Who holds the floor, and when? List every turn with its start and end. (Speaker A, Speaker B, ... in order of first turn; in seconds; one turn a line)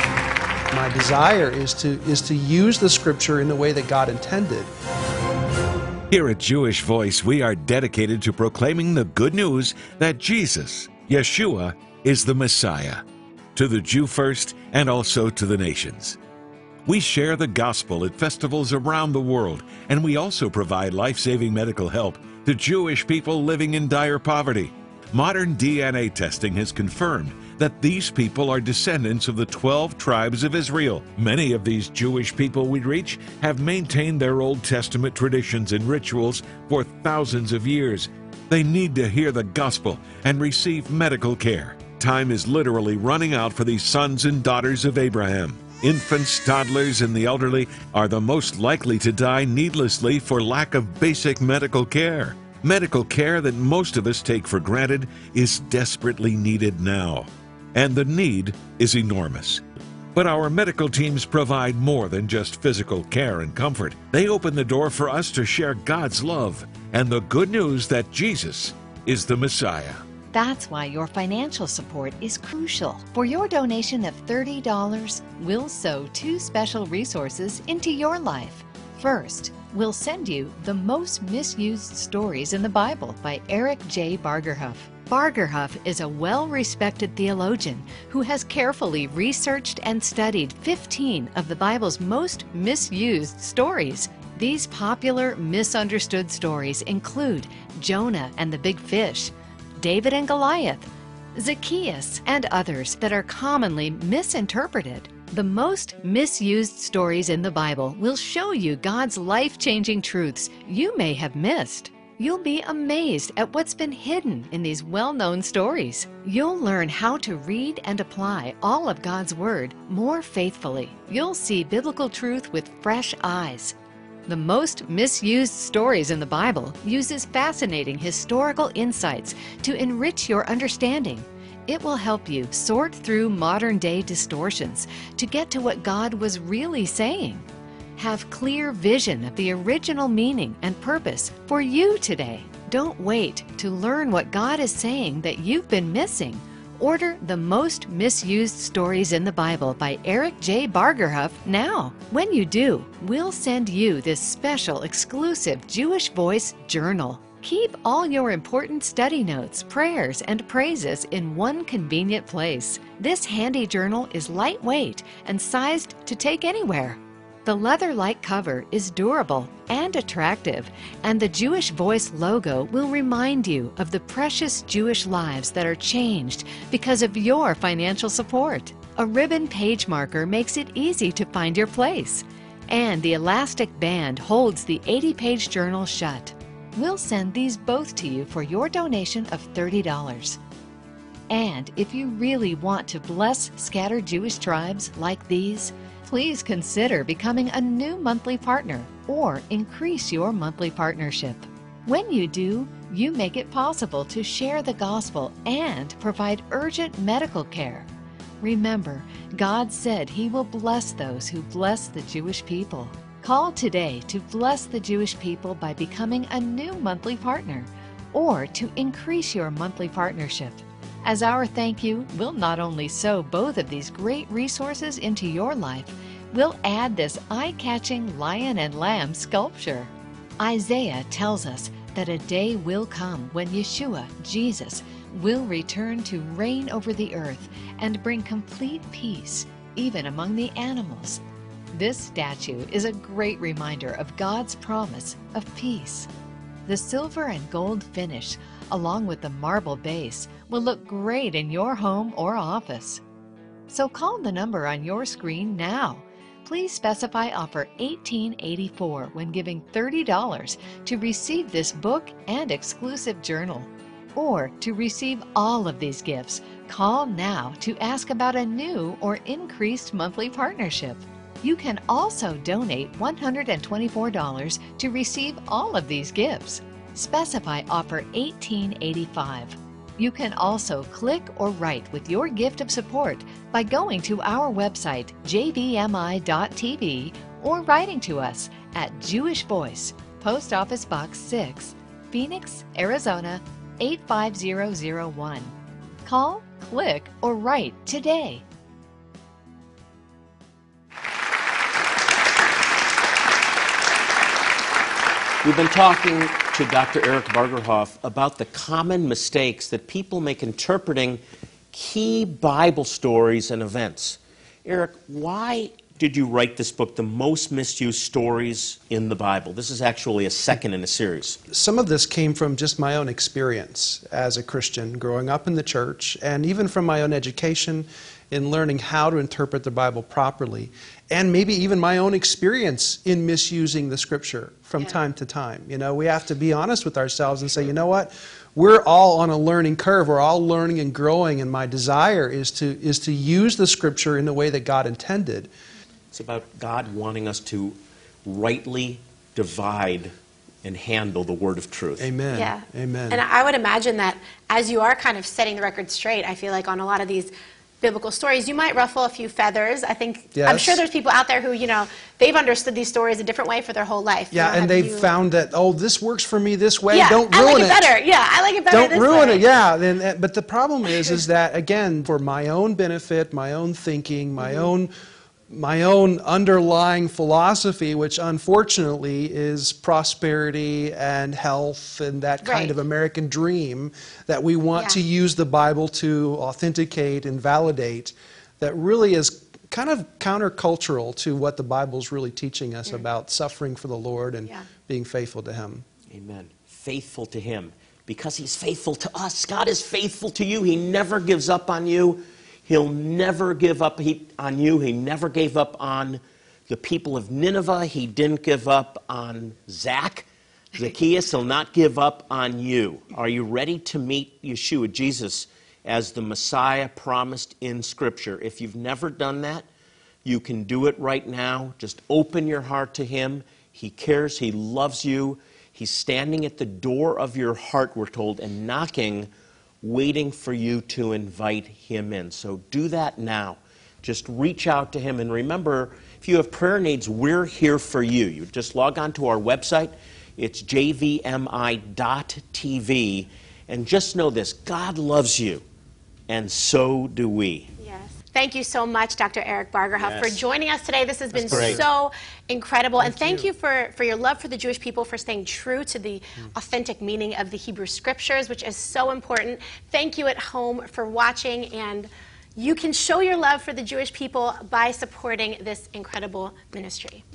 Speaker A: 0.7-4.7
Speaker B: 6.1-13.0
Speaker B: 13.6-16.2
Speaker B: 16.9-59.6
Speaker B: 60.1-70.0
Speaker C: 70.3-123.7
Speaker C: 124.3-190.4
Speaker C: 191.3-207.9
Speaker C: 208.4-241.2
Speaker C: 241.7-246.1
Speaker C: 246.7-253.0
Speaker C: 253.7-295.5
Speaker C: 296.1-298.4
Speaker D: 305.4-311.2
Speaker D: 311.7-321.4
Speaker A: 321.5-345.5
Speaker D: 346.1-352.1
Speaker A: 352.0-353.2
Speaker E: 352.3-365.1
Speaker A: 360.3-360.8
Speaker A: 364.3-367.9
Speaker E: 366.9-369.4
Speaker A: 368.7-374.9
Speaker E: 374.4-374.7
Speaker A: 375.5-395.8
Speaker E: 382.4-382.8
Speaker D: 396.1-419.6
Speaker D: 420.2-429.3
Speaker D: 429.8-445.6
Speaker D: 446.3-447.7
Speaker E: 447.8-467.2
Speaker D: 449.9-450.4
Speaker A: 451.4-451.8
Speaker D: 451.4-451.8
Speaker A: 453.0-453.5